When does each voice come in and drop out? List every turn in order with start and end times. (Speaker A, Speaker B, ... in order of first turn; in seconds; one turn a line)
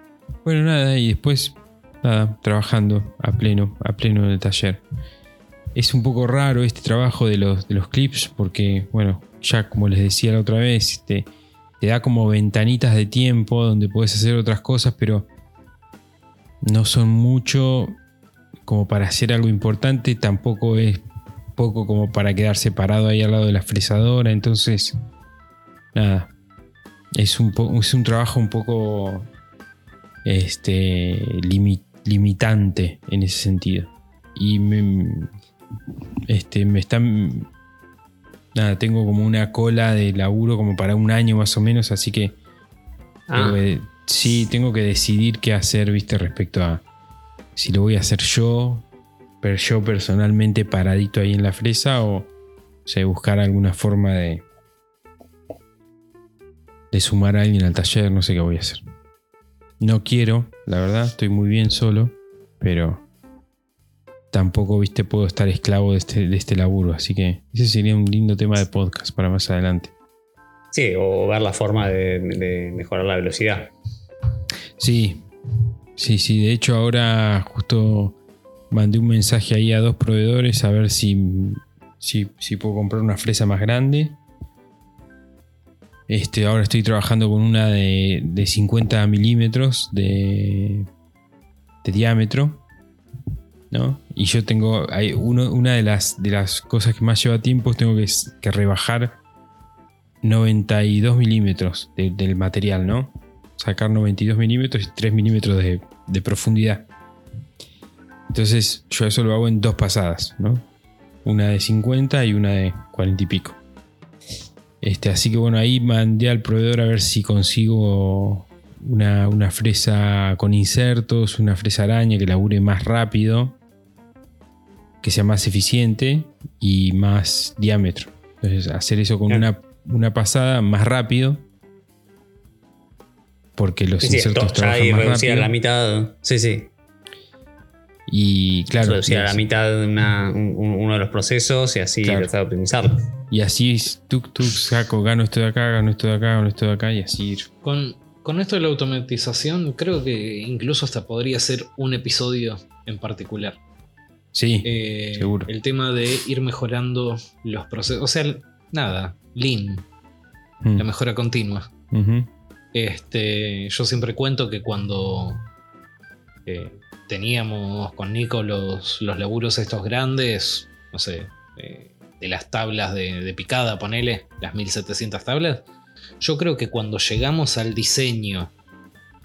Speaker A: 0.4-4.8
Speaker A: 5.7-11.3
Speaker A: 11.8-15.3
Speaker A: 16.6-18.0
Speaker A: 18.6-21.0
Speaker A: 21.6-24.9
Speaker A: 25.9-26.3
Speaker A: 27.1-29.3
Speaker A: 30.2-35.3
Speaker A: 36.3-37.5
Speaker A: 38.5-42.4
Speaker B: 43.3-43.6
Speaker A: 43.3-46.8
Speaker A: 47.5-48.9
Speaker A: 49.4-52.3
Speaker A: 52.9-54.4
Speaker A: 56.9-58.8
Speaker A: 59.8-63.0
Speaker A: 64.3-69.9
Speaker B: 70.7-73.7
Speaker A: 74.8-75.3
Speaker A: 76.0-78.2
Speaker A: 78.7-84.2
Speaker A: 86.1-90.9
Speaker A: 91.8-92.6
Speaker A: 93.7-99.2
Speaker A: 100.2-106.9
Speaker A: 108.3-110.7
Speaker A: 111.2-113.6
Speaker A: 114.8-123.6
Speaker A: 125.0-131.4
Speaker A: 133.6-135.5
Speaker B: 134.0-136.7
Speaker A: 138.1-139.4
Speaker B: 138.8-143.1
Speaker A: 142.0-142.3
Speaker A: 143.3-147.5
Speaker C: 147.6-153.6
Speaker A: 154.3-155.5
Speaker C: 154.6-159.8
Speaker C: 160.8-161.7
Speaker A: 161.9-162.3
Speaker C: 162.7-165.5
Speaker C: 166.4-175.7
Speaker C: 176.2-178.5